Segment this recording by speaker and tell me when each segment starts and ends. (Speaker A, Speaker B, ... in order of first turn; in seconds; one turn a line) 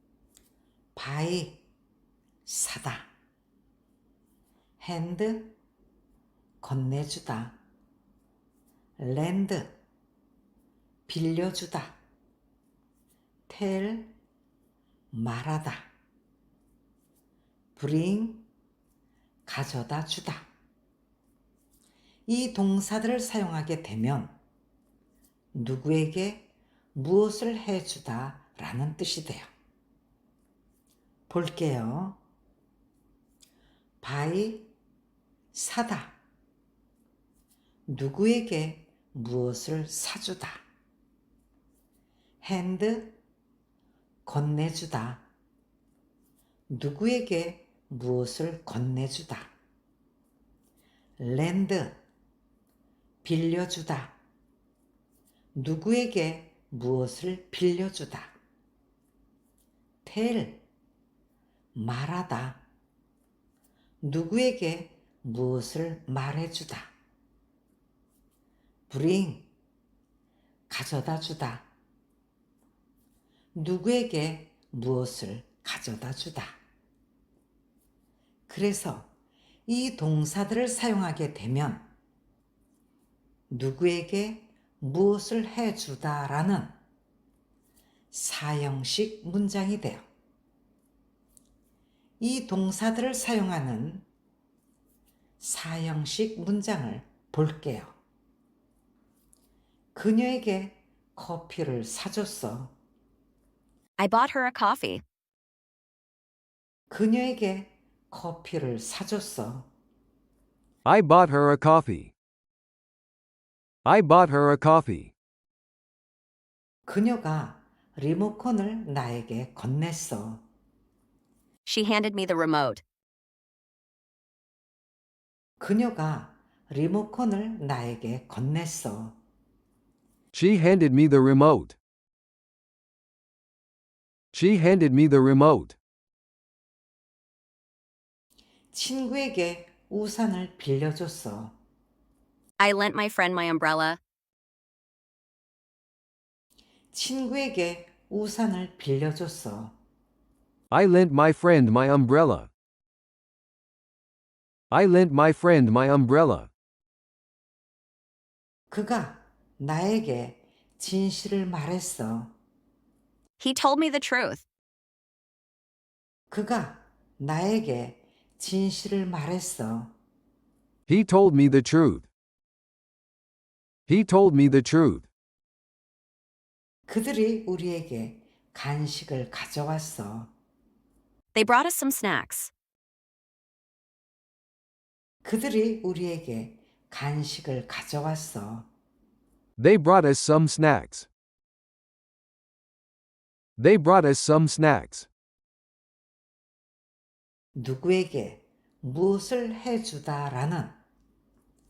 Speaker A: 1.0-1.6
Speaker A: 2.5-3.1
Speaker A: 4.8-5.6
Speaker A: 6.6-7.6
Speaker A: 9.0-9.8
Speaker A: 11.1-12.0
Speaker A: 13.5-14.1
Speaker A: 15.1-15.9
Speaker A: 17.8-18.5
Speaker A: 19.5-20.5
Speaker A: 22.3-24.4
Speaker A: 25.5-29.5
Speaker A: 31.3-32.2
Speaker A: 34.0-34.7
Speaker A: 35.5-36.2
Speaker A: 37.9-40.6
Speaker A: 42.4-43.2
Speaker A: 44.3-45.3
Speaker A: 46.7-49.5
Speaker A: 51.2-52.0
Speaker A: 53.2-54.2
Speaker A: 55.5-58.4
Speaker A: 60.0-60.6
Speaker A: 61.8-62.7
Speaker A: 64.0-66.9
Speaker A: 68.9-69.5
Speaker A: 70.7-71.7
Speaker A: 73.6-76.6
Speaker A: 78.5-79.1
Speaker A: 79.7-81.9
Speaker A: 83.5-86.8
Speaker A: 88.1-90.0
Speaker A: 92.2-94.0
Speaker A: 95.4-98.0
Speaker A: 100.0-102.7
Speaker B: 104.0-105.0
Speaker A: 106.9-109.7
Speaker C: 110.8-112.1
Speaker C: 113.8-115.1
Speaker A: 116.9-120.4
Speaker B: 121.7-122.8
Speaker A: 125.6-129.2
Speaker C: 130.3-131.8
Speaker C: 134.3-135.8
Speaker A: 138.7-141.5
Speaker B: 142.6-144.0
Speaker A: 146.9-149.7
Speaker C: 150.7-152.5
Speaker C: 154.7-156.5
Speaker A: 158.7-162.3
Speaker B: 163.4-164.4
Speaker A: 166.3-169.9
Speaker C: 170.9-172.1
Speaker C: 173.9-175.1
Speaker A: 176.9-180.3
Speaker B: 181.3-182.5
Speaker A: 185.2-188.7
Speaker C: 189.6-191.1
Speaker C: 193.6-195.1
Speaker A: 197.6-200.8